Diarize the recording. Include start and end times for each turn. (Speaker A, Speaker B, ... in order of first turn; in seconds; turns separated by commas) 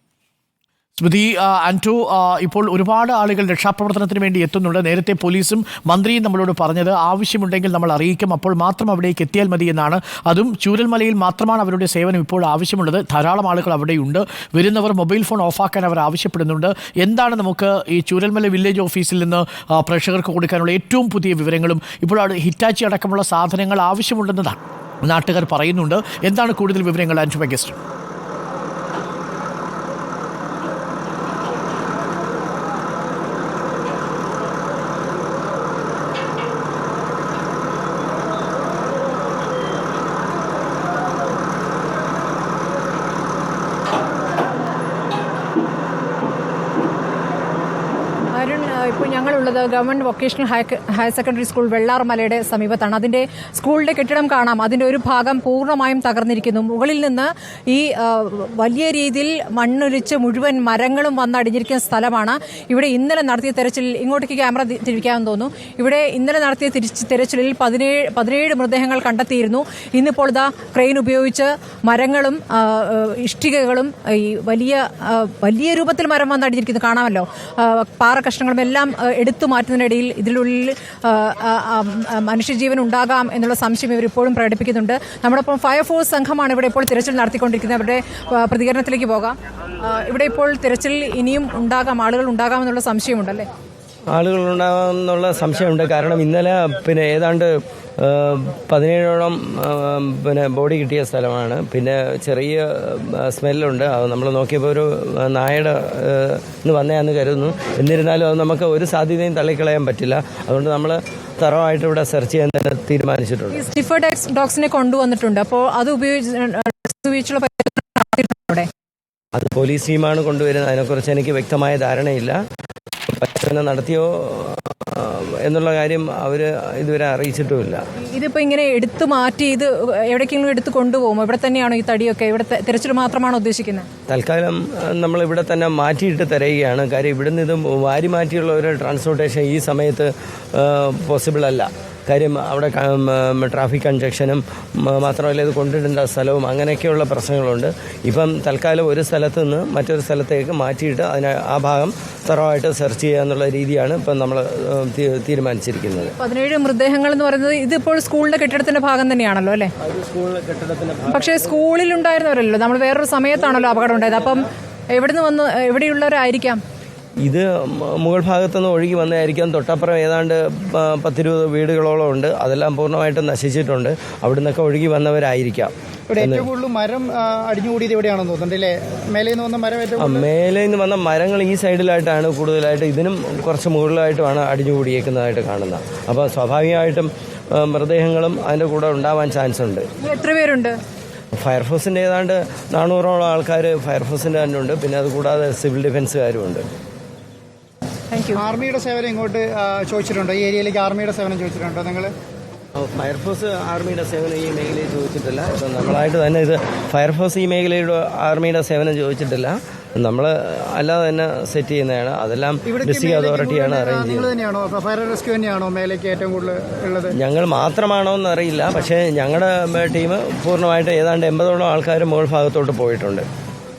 Speaker A: 1.0-27.8, Speaker B: 48.3-93.5, Speaker C: 94.1-113.6, Speaker B: 113.5-118.7, Speaker C: 119.3-122.4, Speaker C: 123.1-127.8, Speaker B: 128.0-133.9, Speaker C: 134.1-156.1, Speaker B: 156.2-159.7, Speaker C: 159.8-161.6, Speaker B: 161.1-166.6, Speaker C: 163.8-164.3, Speaker C: 167.2-176.5, Speaker D: 176.1-180.3, Speaker C: 180.0-189.8, Speaker B: 190.0-190.8, Speaker C: 191.4-196.6, Speaker B: 198.1-198.4, Speaker D: 198.3-202.1, Speaker C: 202.8-214.3, Speaker D: 212.7-217.2, Speaker C: 217.2-223.2